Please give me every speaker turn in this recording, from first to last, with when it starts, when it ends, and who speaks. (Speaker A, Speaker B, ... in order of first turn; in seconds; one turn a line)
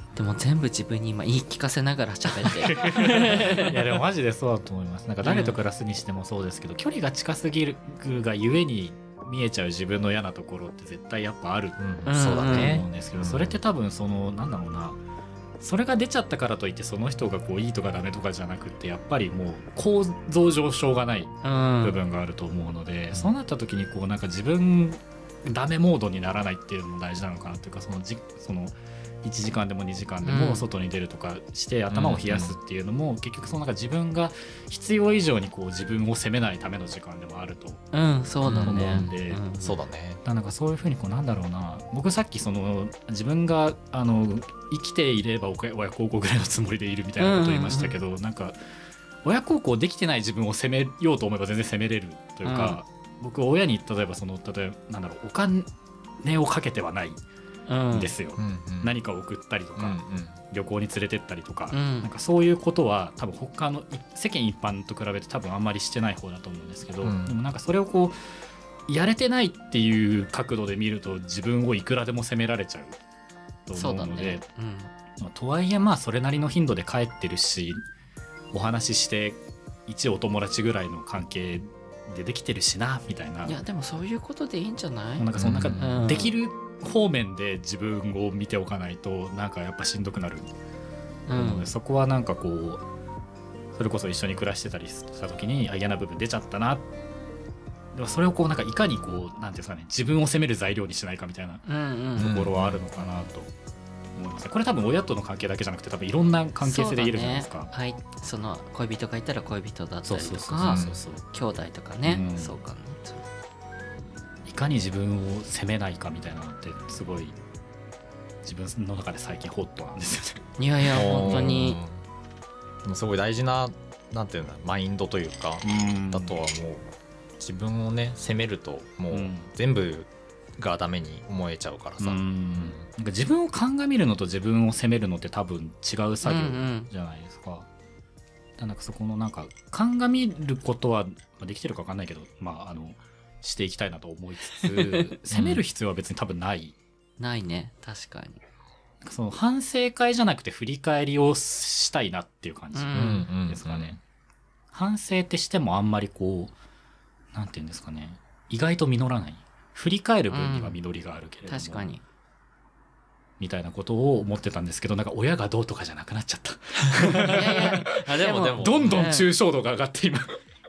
Speaker A: 0.1-3.7
Speaker B: 2.5-15.0
Speaker C: 3.4-3.6
Speaker A: 5.2-5.6
Speaker C: 11.8-13.6
Speaker A: 12.1-12.8
Speaker B: 15.6-37.9
Speaker A: 21.4-22.0
Speaker A: 30.2-30.7
Speaker C: 31.9-32.6
Speaker A: 37.9-39.8
Speaker C: 38.4-40.2
Speaker B: 38.5-39.4
Speaker B: 40.2-48.6
Speaker A: 47.2-48.0
Speaker B: 49.2-55.7
Speaker A: 52.4-52.8
Speaker B: 56.2-57.2
Speaker A: 57.7-58.1
Speaker B: 57.9-68.2
Speaker C: 58.4-59.0
Speaker C: 59.8-60.4
Speaker A: 61.7-62.1
Speaker C: 67.0-67.4
Speaker B: 68.9-73.0
Speaker B: 73.7-74.4
Speaker A: 73.7-74.9
Speaker B: 75.2-77.8
Speaker B: 78.5-83.6
Speaker A: 83.4-85.3
Speaker B: 85.2-90.5
Speaker C: 85.3-85.8
Speaker A: 85.8-86.3
Speaker A: 91.3-91.7
Speaker B: 91.3-92.8
Speaker B: 93.8-96.9
Speaker B: 97.9-103.5
Speaker A: 101.7-102.3
Speaker C: 102.2-103.3
Speaker B: 104.2-107.7
Speaker A: 106.6-113.3
Speaker B: 110.0-111.3
Speaker C: 110.6-111.0
Speaker B: 112.0-112.6
Speaker B: 114.5-117.4
Speaker B: 118.4-121.6
Speaker A: 120.6-121.8
Speaker C: 120.9-122.0
Speaker C: 122.8-132.8
Speaker B: 125.6-126.4
Speaker B: 129.1-129.5
Speaker B: 132.0-137.7
Speaker A: 136.2-136.9
Speaker B: 138.6-146.8
Speaker C: 145.3-145.6
Speaker A: 147.2-148.4
Speaker B: 149.0-154.0
Speaker A: 152.7-153.3
Speaker C: 152.9-154.0
Speaker B: 154.7-156.6
Speaker B: 157.3-162.0
Speaker A: 160.3-160.8
Speaker A: 161.5-162.0
Speaker B: 163.4-167.9
Speaker C: 167.2-169.1
Speaker A: 167.2-169.3
Speaker B: 168.6-170.4